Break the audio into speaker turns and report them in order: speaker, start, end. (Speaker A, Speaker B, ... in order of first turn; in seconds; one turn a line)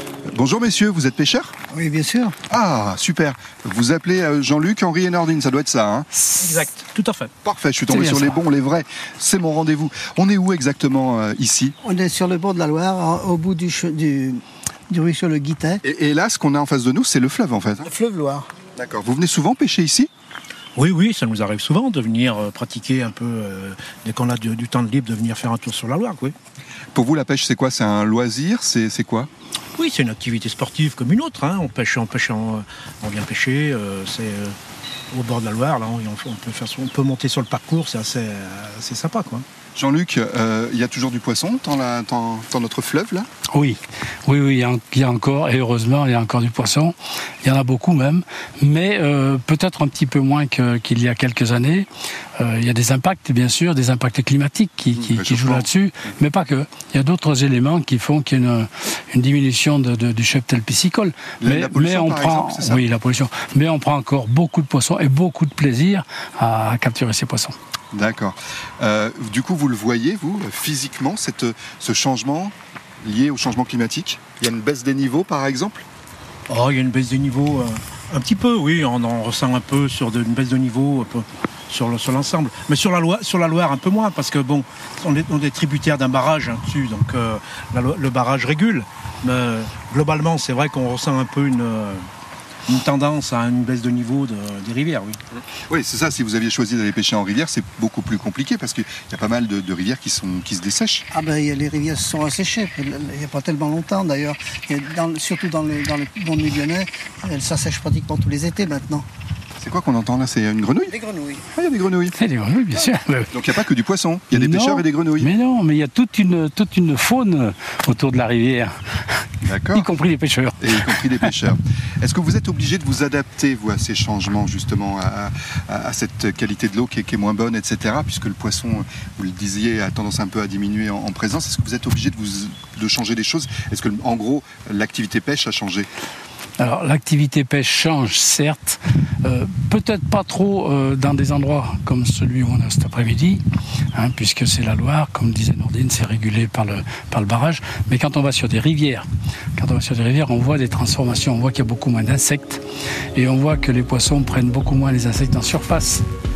Speaker A: 0.3-1.5
Speaker B: 1.7-2.4
Speaker A: 2.5-6.1
Speaker C: 6.2-7.3
Speaker A: 7.4-11.8
Speaker C: 7.9-8.4
Speaker B: 11.8-15.8
Speaker A: 15.8-17.9
Speaker B: 17.8-18.5
Speaker A: 18.8-20.1
Speaker C: 20.8-26.4
Speaker A: 26.9-29.3
Speaker C: 29.8-34.5
Speaker C: 35.1-39.4
Speaker A: 39.8-43.3
Speaker D: 43.5-51.9
Speaker D: 52.4-67.5
Speaker A: 54.9-55.7
Speaker A: 61.4-62.9
Speaker A: 67.9-75.8
Speaker C: 76.5-92.0
Speaker C: 92.7-95.2
Speaker A: 95.4-101.1
Speaker B: 101.1-109.0
Speaker A: 109.6-111.0
Speaker B: 110.9-111.4
Speaker A: 111.5-112.2
Speaker D: 112.1-113.3
Speaker A: 113.3-115.3
Speaker D: 114.3-118.7
Speaker A: 119.4-119.9
Speaker D: 119.7-121.3
Speaker A: 120.6-135.9
Speaker D: 136.6-143.4
Speaker D: 143.9-152.6
Speaker D: 153.1-156.0